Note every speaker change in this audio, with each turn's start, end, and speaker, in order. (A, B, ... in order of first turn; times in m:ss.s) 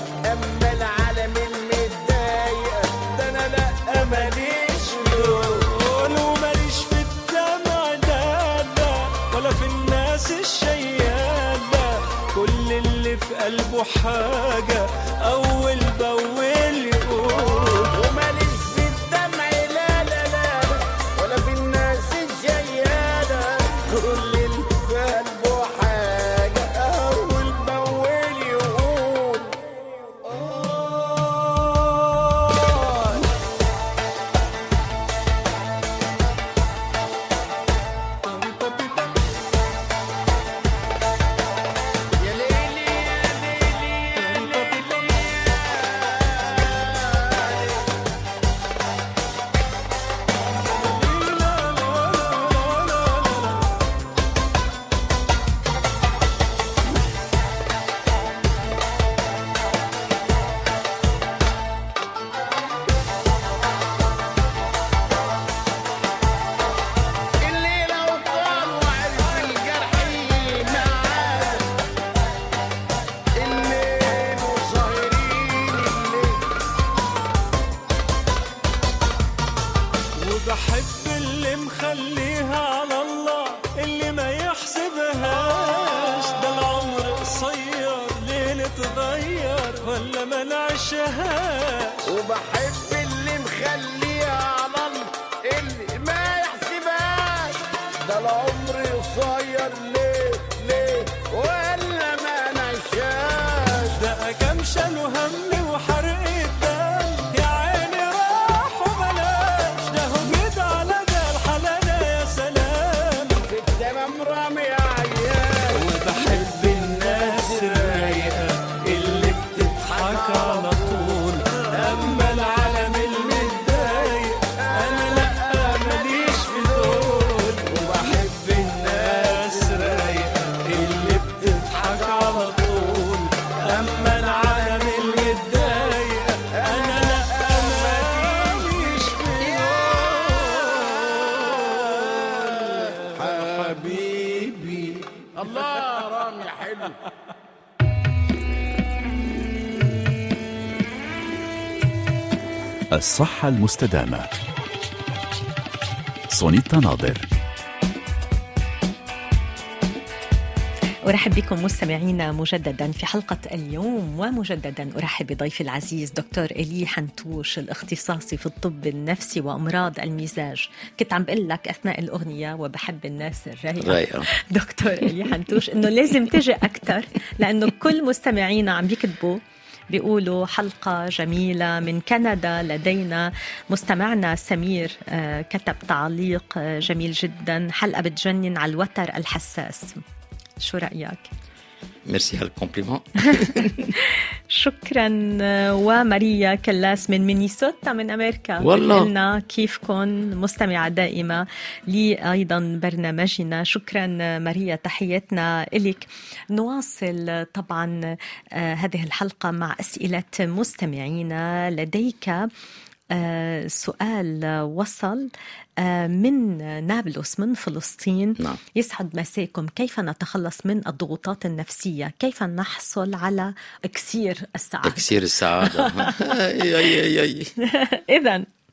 0:00.2-0:05.7 A
0:04.2-0:17.9 B
0:17.9-0:29.6 A
0:30.2-0:31.8 A
0:32.5-0:33.2 A
0:38.3-0:39.1 B
0:42.2-0:47.8 A
0:44.2-0:45.1 B
0:50.8-0:53.6 B
1:07.4-1:11.6 A
1:13.4-1:16.4 A
1:20.2-1:32.1 B
1:32.0-1:44.0 A
1:43.9-1:53.4 B
1:53.4-1:58.4 A
1:55.7-2:20.5 B
1:59.1-2:10.1 A
2:11.8-2:12.4 A
2:13.7-2:15.8 A
2:16.5-2:20.9 A
2:22.0-2:27.0 A
2:32.9-2:34.3 C
2:36.3-2:37.3 C
2:41.0-3:10.0 D
2:53.8-2:54.3 E
2:55.0-2:55.6 E
2:56.1-2:56.3 E
3:10.6-3:11.3 D
3:12.0-3:13.9 E
3:13.3-3:28.0 D
3:18.6-3:19.1 E
3:28.5-3:32.5 D
3:33.1-3:45.1 D
3:44.8-3:47.5 E
3:45.6-3:46.1 D
3:47.6-3:48.5 D